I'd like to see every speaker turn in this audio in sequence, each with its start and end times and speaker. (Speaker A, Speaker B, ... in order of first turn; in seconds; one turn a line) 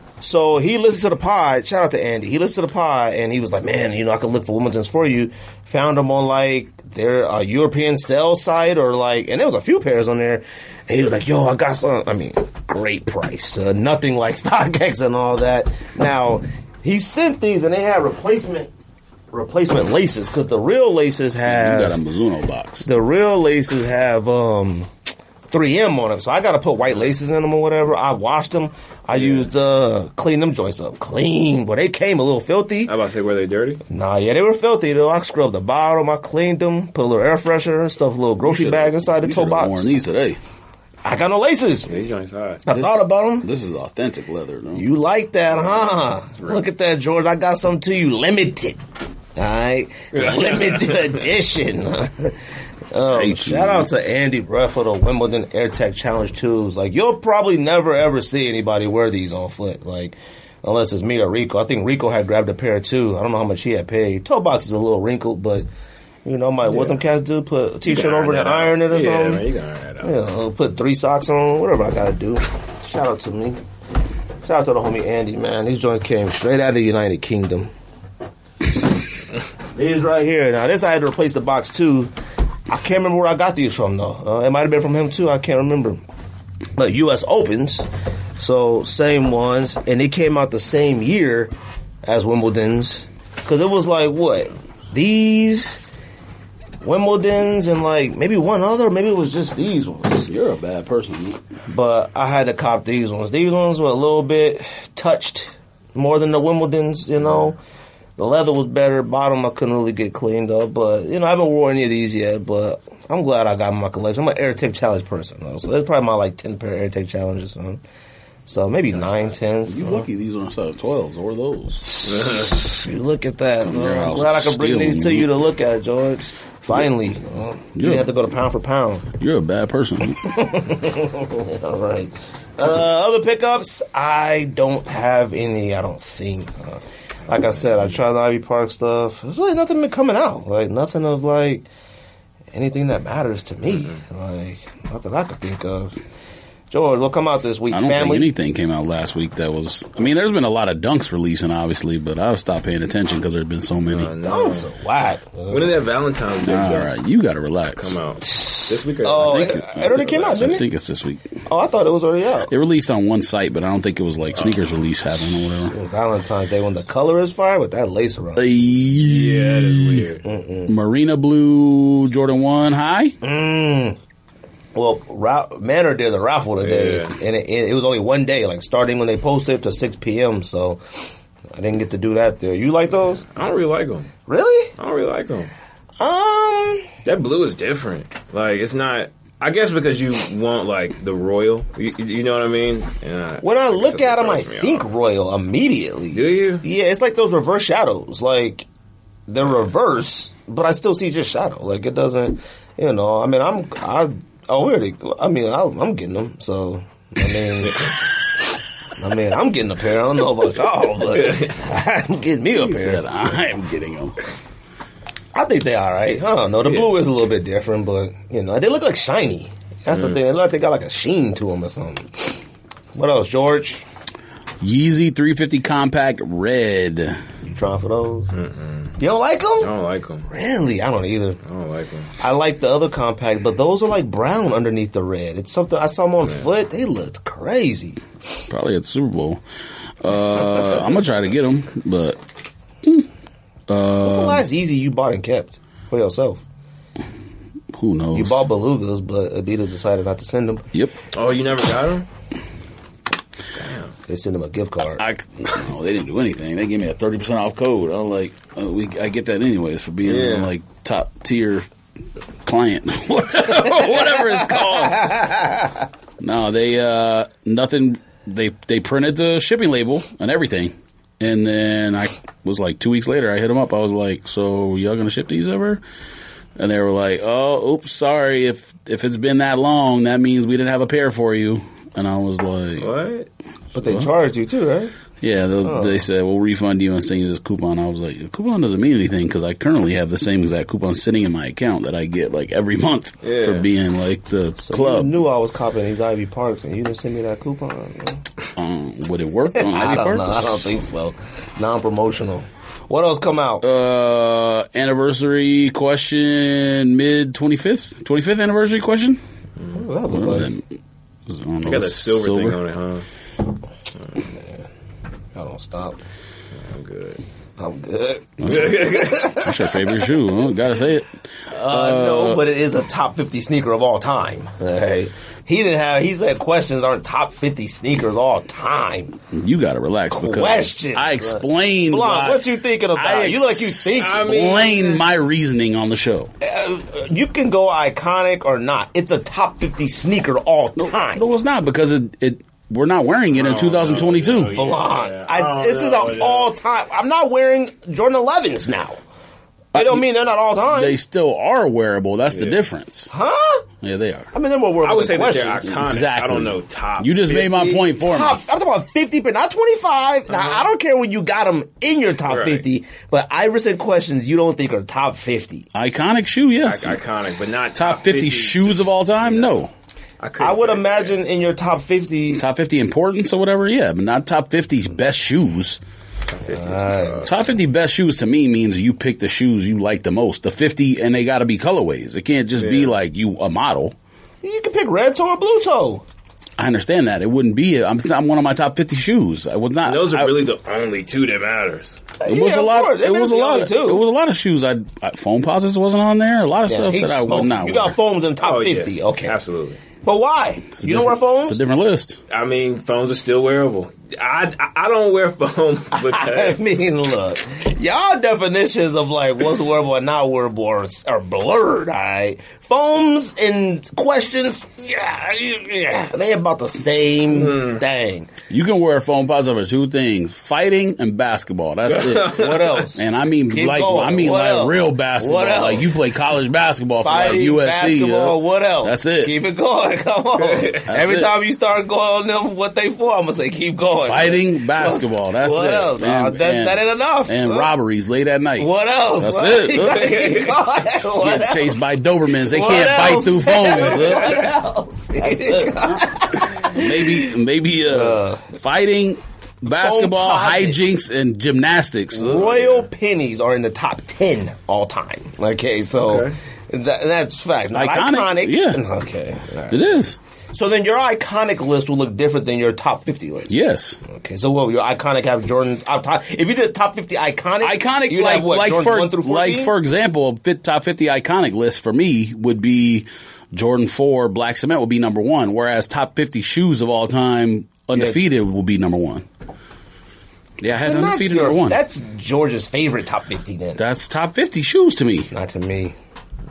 Speaker A: 0.2-18.7
Speaker A: 19.3-22.0
Speaker B: 21.5-22.9
Speaker A: 22.8-24.9
Speaker A: 25.5-33.0
Speaker C: 29.1-29.5
Speaker C: 32.9-33.8
Speaker A: 33.9-39.9
Speaker B: 38.4-40.4
Speaker A: 41.0-41.9
Speaker C: 41.9-42.6
Speaker A: 42.7-43.5
Speaker B: 42.7-44.9
Speaker A: 44.8-48.8
Speaker C: 46.4-46.6
Speaker A: 49.4-52.4
Speaker C: 50.1-51.2
Speaker A: 52.9-65.7
Speaker B: 53.1-53.9
Speaker A: 66.2-69.4
Speaker C: 66.7-67.0
Speaker C: 67.9-70.1
Speaker A: 70.0-73.6
Speaker A: 74.4-77.7
Speaker A: 79.8-82.1
Speaker A: 82.7-86.0
Speaker A: 86.8-91.5
Speaker A: 92.0-95.8
Speaker A: 96.8-100.3
Speaker B: 100.2-101.4
Speaker A: 101.7-107.6
Speaker A: 108.2-117.8
Speaker A: 118.5-120.1
Speaker B: 119.7-121.9
Speaker A: 121.9-129.1
Speaker C: 122.1-122.5
Speaker B: 123.6-125.3
Speaker B: 127.8-128.1
Speaker B: 129.2-130.6
Speaker A: 130.2-141.7
Speaker A: 142.5-145.9
Speaker A: 146.7-148.3
Speaker B: 147.7-154.1
Speaker C: 153.9-154.7
Speaker A: 154.2-155.8
Speaker C: 155.5-156.9
Speaker B: 156.4-158.0
Speaker C: 157.7-160.4
Speaker A: 159.0-160.6
Speaker B: 159.2-161.2
Speaker A: 161.5-162.5
Speaker B: 162.5-165.7
Speaker A: 165.6-168.5
Speaker B: 168.4-170.1
Speaker C: 168.9-170.2
Speaker A: 170.2-170.7
Speaker B: 170.7-173.2
Speaker A: 173.2-174.0
Speaker A: 174.8-180.8
Speaker C: 176.6-177.2
Speaker A: 181.5-183.3
Speaker C: 183.3-184.1
Speaker A: 184.3-184.7
Speaker C: 184.8-185.5
Speaker A: 186.0-186.9
Speaker C: 187.1-194.9
Speaker A: 193.4-198.7
Speaker C: 196.1-196.6
Speaker A: 199.3-208.0
Speaker A: 209.0-213.1
Speaker C: 211.1-211.6
Speaker B: 212.5-214.2
Speaker A: 215.3-222.4
Speaker C: 216.7-216.9
Speaker A: 222.9-223.8
Speaker B: 224.6-227.2
Speaker A: 227.4-228.3
Speaker C: 228.3-229.0
Speaker A: 229.0-229.7
Speaker C: 229.6-230.3
Speaker A: 230.3-231.4
Speaker C: 231.4-232.1
Speaker A: 232.2-238.0
Speaker B: 238.5-239.4
Speaker B: 240.0-242.2
Speaker B: 242.8-243.1
Speaker B: 243.7-244.4
Speaker A: 244.0-246.4
Speaker B: 247.7-248.5
Speaker A: 248.1-250.7
Speaker C: 251.1-252.1
Speaker C: 253.6-253.9
Speaker A: 254.1-255.0
Speaker B: 254.9-261.7
Speaker C: 260.1-260.5
Speaker B: 262.4-265.5
Speaker A: 265.0-265.3
Speaker B: 266.2-275.8
Speaker B: 276.6-282.9
Speaker C: 282.8-283.3
Speaker A: 283.8-284.9
Speaker B: 285.2-295.2
Speaker A: 285.6-286.0
Speaker C: 293.2-293.7
Speaker A: 294.6-298.2
Speaker B: 298.6-300.7
Speaker A: 299.5-303.6
Speaker B: 303.6-309.2
Speaker A: 309.7-310.5
Speaker B: 310.1-310.7
Speaker B: 311.3-312.6
Speaker C: 311.6-313.1
Speaker A: 314.3-314.6
Speaker A: 315.4-316.0
Speaker C: 316.5-317.2
Speaker A: 317.6-320.0
Speaker B: 318.4-322.4
Speaker C: 318.5-319.3
Speaker A: 321.5-329.2
Speaker B: 329.3-336.3
Speaker A: 330.1-334.3
Speaker C: 334.0-335.0
Speaker A: 336.4-341.3
Speaker B: 340.8-344.6
Speaker C: 343.3-346.5
Speaker A: 344.5-349.0
Speaker B: 349.7-350.1
Speaker A: 349.7-351.0
Speaker B: 350.7-353.1
Speaker C: 352.3-352.6
Speaker A: 353.1-353.6
Speaker B: 353.8-354.3
Speaker A: 354.3-355.8
Speaker C: 354.8-357.8
Speaker B: 355.7-358.4
Speaker A: 358.0-365.7
Speaker C: 362.3-362.6
Speaker B: 365.7-367.0
Speaker C: 366.6-369.5
Speaker B: 367.8-369.7
Speaker C: 370.2-371.2
Speaker A: 370.4-372.4
Speaker B: 372.4-375.8
Speaker C: 376.3-377.4
Speaker A: 376.5-377.3
Speaker B: 377.2-383.9
Speaker C: 382.6-382.9
Speaker A: 384.4-386.0
Speaker B: 386.6-390.4
Speaker C: 389.8-392.0
Speaker A: 392.2-394.0
Speaker B: 392.3-398.0
Speaker A: 396.7-399.4
Speaker C: 398.4-399.8
Speaker A: 400.0-401.6
Speaker B: 400.8-402.2
Speaker C: 402.3-406.7
Speaker A: 405.9-418.3
Speaker C: 417.3-417.8
Speaker B: 418.5-429.3
Speaker C: 421.9-422.8
Speaker A: 422.2-425.9
Speaker A: 427.0-437.7
Speaker C: 430.4-430.8
Speaker B: 430.9-431.3
Speaker B: 434.1-440.1
Speaker A: 438.6-441.8
Speaker C: 439.8-440.6
Speaker B: 441.0-444.5
Speaker A: 442.4-448.5
Speaker C: 444.0-444.4
Speaker B: 445.5-452.8
Speaker A: 449.7-451.0
Speaker A: 452.1-459.9
Speaker C: 456.0-456.4
Speaker B: 457.7-458.8
Speaker B: 459.7-460.2
Speaker A: 460.5-469.7
Speaker B: 463.5-464.0
Speaker B: 467.6-479.3
Speaker A: 477.9-478.2
Speaker B: 480.6-481.8
Speaker A: 480.8-483.8
Speaker B: 483.8-485.3
Speaker A: 485.3-486.0